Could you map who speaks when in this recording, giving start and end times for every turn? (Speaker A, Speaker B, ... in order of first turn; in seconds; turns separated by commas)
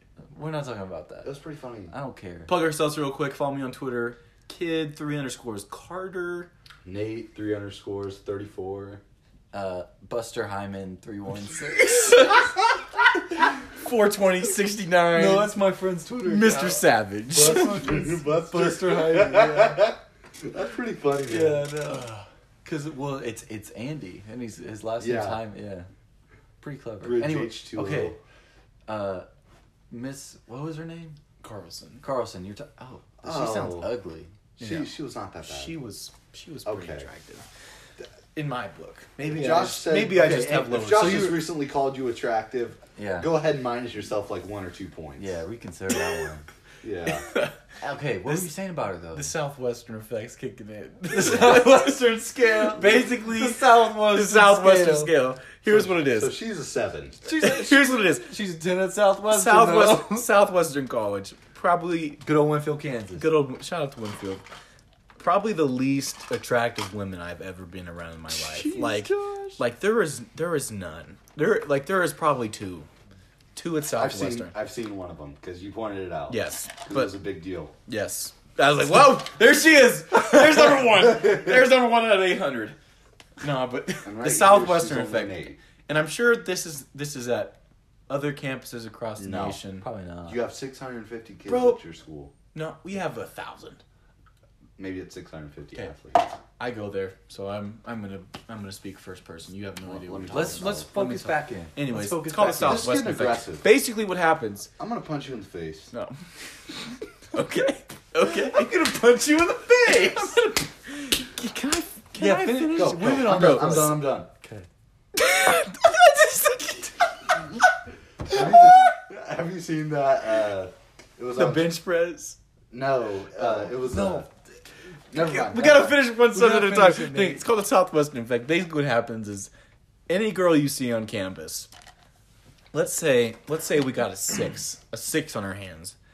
Speaker A: 0.3-1.4, Speaker B: 1.2-1.9, Speaker A: 1.9-2.5, Speaker C: 2.5-6.5, Speaker B: 6.8-9.0, Speaker A: 9.5-12.3, Speaker C: 11.7-12.7, Speaker C: 13.4-15.5, Speaker A: 15.1-16.8, Speaker C: 16.2-17.8, Speaker B: 17.3-21.7, Speaker A: 17.3-19.9, Speaker A: 21.2-22.1, Speaker C: 21.8-22.3, Speaker A: 22.6-25.9, Speaker B: 25.0-25.4, Speaker A: 26.6-28.1, Speaker B: 27.0-28.2, Speaker C: 27.8-28.1, Speaker A: 28.9-29.3, Speaker A: 29.9-31.2, Speaker C: 31.4-32.0, Speaker A: 32.0-34.3, Speaker B: 33.2-33.9, Speaker B: 34.6-35.8, Speaker C: 34.6-34.9, Speaker C: 35.4-37.4, Speaker B: 36.6-37.0, Speaker C: 38.3-41.5, Speaker B: 39.2-45.3, Speaker A: 40.1-41.4, Speaker A: 43.0-43.3, Speaker A: 45.2-46.4, Speaker B: 46.8-47.3, Speaker C: 47.0-47.5, Speaker A: 47.8-49.3, Speaker C: 49.1-56.4, Speaker A: 51.1-55.1, Speaker B: 55.7-57.2, Speaker A: 57.2-60.3, Speaker C: 57.4-58.4, Speaker C: 59.3-62.2, Speaker A: 62.2-63.3, Speaker C: 63.1-64.4, Speaker C: 65.2-72.9, Speaker A: 68.3-69.6, Speaker C: 73.5-74.5, Speaker B: 74.0-77.7, Speaker C: 76.3-77.2, Speaker C: 77.9-82.8, Speaker C: 83.4-87.6, Speaker B: 84.0-85.6, Speaker C: 88.1-89.9, Speaker B: 89.2-89.6, Speaker A: 89.8-90.4, Speaker B: 90.3-92.3, Speaker C: 91.5-91.8, Speaker C: 92.5-93.8, Speaker B: 94.8-96.3, Speaker C: 96.6-104.7, Speaker B: 99.8-100.9, Speaker A: 100.3-103.0, Speaker B: 102.4-103.7, Speaker B: 104.8-105.9, Speaker C: 105.9-106.2, Speaker C: 106.7-114.1, Speaker A: 109.8-110.3, Speaker A: 112.2-114.7, Speaker B: 112.7-114.3, Speaker C: 115.1-117.5, Speaker B: 118.2-121.8, Speaker C: 118.3-118.9, Speaker C: 121.3-122.4, Speaker B: 122.7-124.3, Speaker A: 123.3-124.3, Speaker B: 125.1-126.1, Speaker C: 125.1-129.5, Speaker A: 126.3-127.4, Speaker C: 130.1-131.7, Speaker C: 132.7-135.9